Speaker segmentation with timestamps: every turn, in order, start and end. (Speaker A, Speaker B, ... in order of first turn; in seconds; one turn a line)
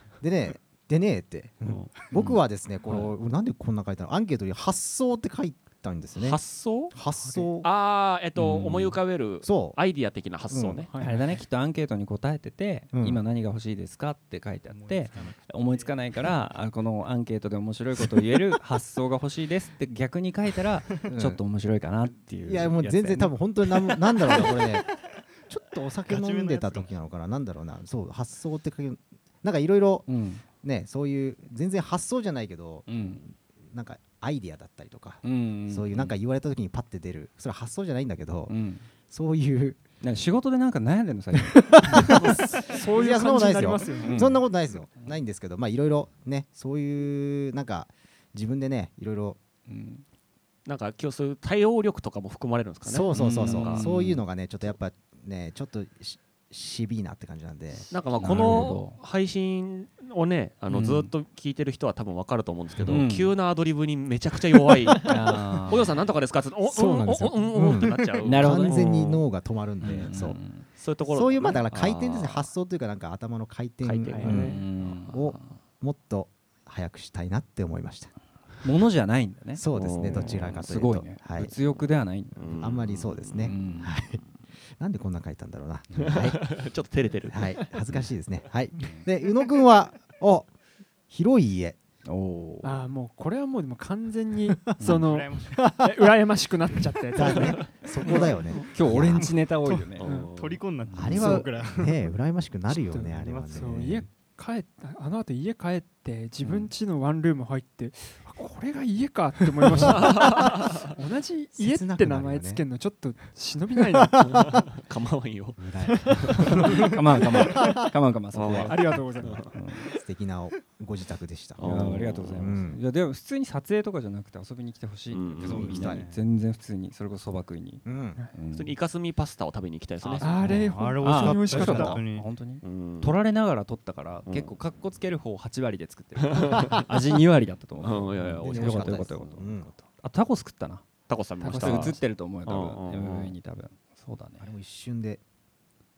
Speaker A: 0.2-7.7
Speaker B: 2.1-3.1
Speaker C: 6.1-6.9
Speaker C: 7.6-10.9
Speaker B: 8.3-9.0
Speaker A: 9.4-9.8
Speaker A: 10.5-10.8
Speaker D: 10.8-11.4
Speaker B: 11.0-23.4
Speaker A: 12.9-13.2
Speaker E: 14.7-16.1
Speaker A: 21.0-21.4
Speaker A: 22.4-24.9
Speaker E: 24.2-24.6
Speaker A: 25.5-30.1
Speaker E: 26.0-26.9
Speaker B: 30.1-30.4
Speaker A: 30.6-32.9
Speaker B: 32.9-33.3
Speaker A: 33.7-38.5
Speaker B: 35.2-36.1
Speaker B: 38.5-38.8
Speaker A: 39.1-39.8
Speaker B: 40.0-42.0
Speaker A: 41.4-49.4
Speaker D: 42.2-44.2
Speaker B: 44.0-44.4
Speaker B: 49.7-50.0
Speaker C: 50.6-53.8
Speaker A: 52.8-58.7
Speaker B: 53.1-54.2
Speaker C: 57.9-69.2
Speaker B: 58.2-59.0
Speaker B: 60.7-61.1
Speaker B: 62.8-63.3
Speaker B: 65.0-65.9
Speaker A: 66.7-70.4
Speaker B: 68.2-68.9
Speaker B: 69.8-70.7
Speaker C: 70.7-72.5
Speaker A: 71.1-78.1
Speaker C: 73.8-75.2
Speaker B: 74.2-75.2
Speaker B: 78.6-82.5
Speaker A: 79.5-81.5
Speaker C: 79.7-80.5
Speaker C: 82.3-83.6
Speaker A: 82.6-84.2
Speaker B: 83.4-84.0
Speaker A: 84.8-86.4
Speaker C: 86.0-87.5
Speaker A: 87.3-90.5
Speaker A: 91.1-91.8
Speaker B: 92.1-92.8
Speaker D: 92.6-98.6
Speaker E: 94.9-95.7
Speaker A: 97.1-99.4
Speaker B: 98.7-100.1
Speaker E: 99.1-102.1
Speaker C: 100.0-100.6
Speaker B: 100.9-101.5
Speaker A: 101.0-104.1
Speaker D: 102.7-114.4
Speaker E: 102.9-103.8
Speaker C: 106.4-106.7
Speaker C: 109.8-110.8
Speaker A: 111.5-112.7
Speaker C: 114.2-116.6
Speaker A: 115.6-116.6
Speaker B: 116.8-118.8
Speaker C: 118.3-119.5
Speaker D: 118.7-119.5
Speaker B: 119.5-119.9
Speaker A: 119.9-121.7
Speaker C: 121.5-122.5
Speaker B: 121.6-128.7
Speaker A: 122.3-122.8
Speaker C: 125.1-125.6
Speaker A: 125.4-126.1
Speaker E: 125.4-126.2
Speaker A: 127.8-128.2
Speaker C: 128.5-130.3
Speaker D: 130.2-132.0
Speaker E: 130.4-132.3
Speaker A: 130.4-130.7
Speaker B: 131.0-140.8
Speaker C: 132.6-133.2
Speaker C: 134.2-134.6
Speaker C: 136.3-136.8
Speaker C: 137.8-139.1
Speaker A: 138.4-139.8
Speaker C: 141.1-143.3
Speaker B: 141.4-144.5
Speaker D: 141.5-141.8
Speaker A: 144.4-145.2